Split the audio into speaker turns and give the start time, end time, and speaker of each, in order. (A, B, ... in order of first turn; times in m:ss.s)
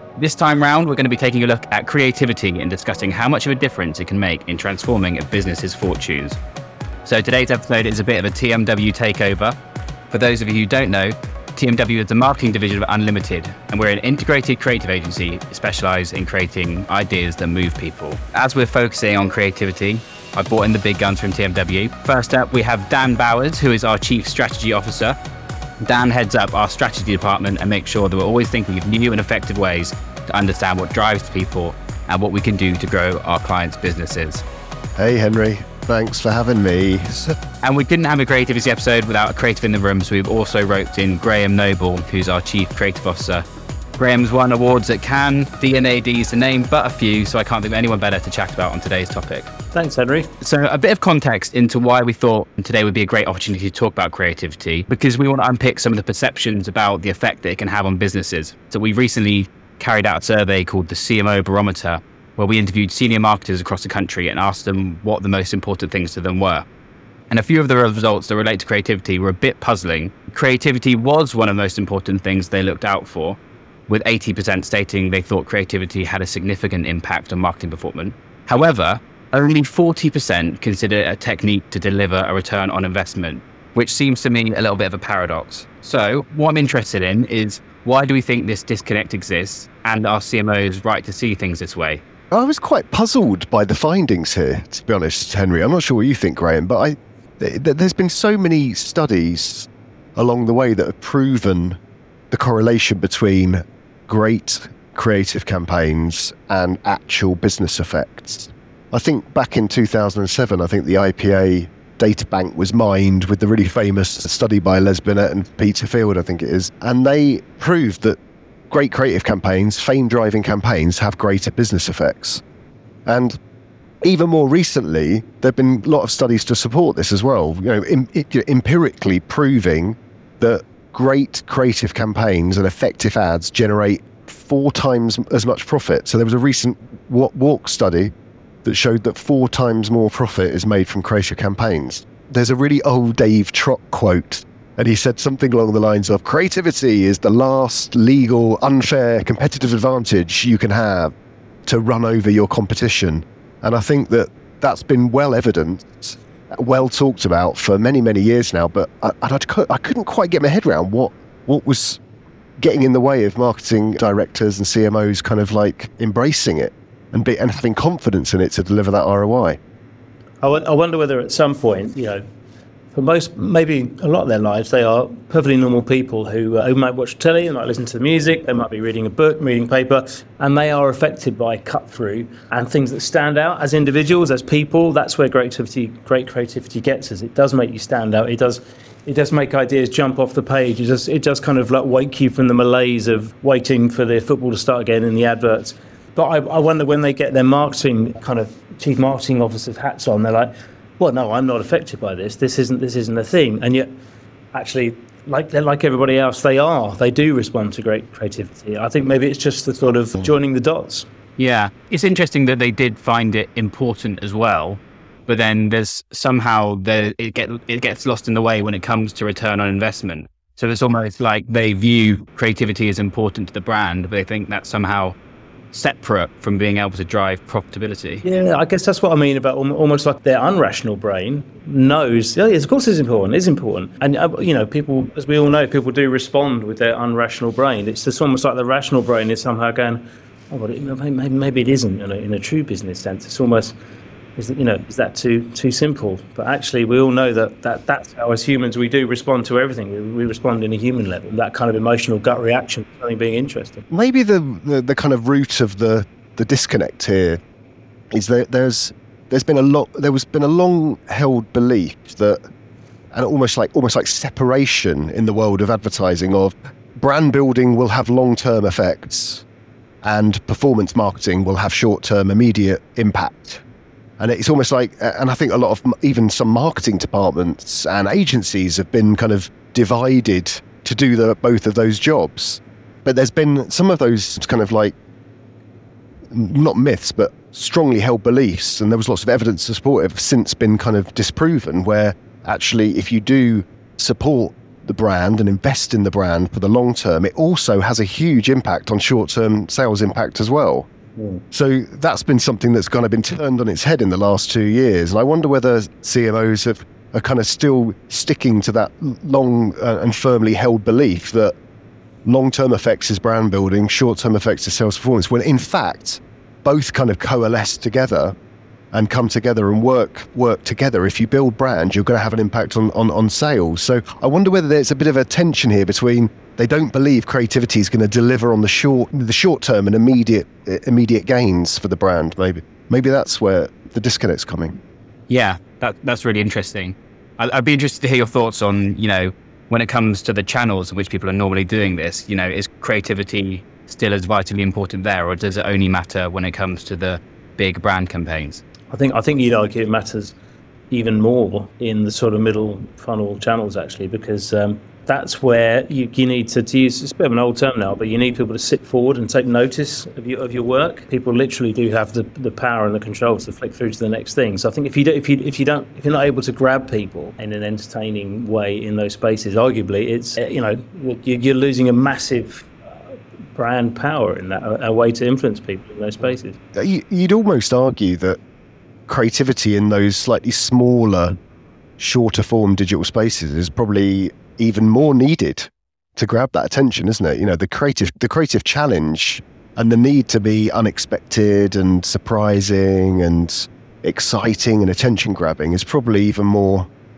0:00.2-0:06.4 A
0:07.0-0:09.6 A
0:10.1-0:25.2 A
0:25.8-0:34.4 A
0:35.0-0:37.4 B
0:37.6-0:43.4 A
0:44.0-0:49.5 A
0:49.7-0:50.3 C
0:50.4-1:06.6 A
1:07.3-1:32.0 A
1:32.3-1:41.8 B
1:42.3-1:58.2 B
1:58.7-2:02.4 B
2:03.0-2:03.4 B
2:04.0-2:18.1 B
2:18.6-2:31.1 B
2:31.6-2:42.0 B
2:42.6-2:49.6 B
2:50.4-2:52.2 C
2:52.9-3:23.9 C
3:24.5-3:31.0 C
3:31.4-3:45.2 A
3:45.7-3:48.2 A
3:48.2-4:03.7 C
4:04.4-4:13.8 C
4:13.9-4:17.4 B
4:18.1-4:22.4 B
4:23.1-4:29.4 B
4:30.0-4:33.6 B
4:34.2-4:44.9 B
4:46.3-5:00.9 B
5:01.2-5:01.4 C
5:01.5-5:11.5 B
5:12.2-5:18.3 B
5:18.9-5:34.8 B
5:35.3-5:48.6 A
5:48.9-5:50.3 C
5:50.9-6:12.7 C
6:13.5-6:16.6 C
6:16.7-6:18.4 B
6:19.1-6:21.3 B
6:22.0-6:36.9 B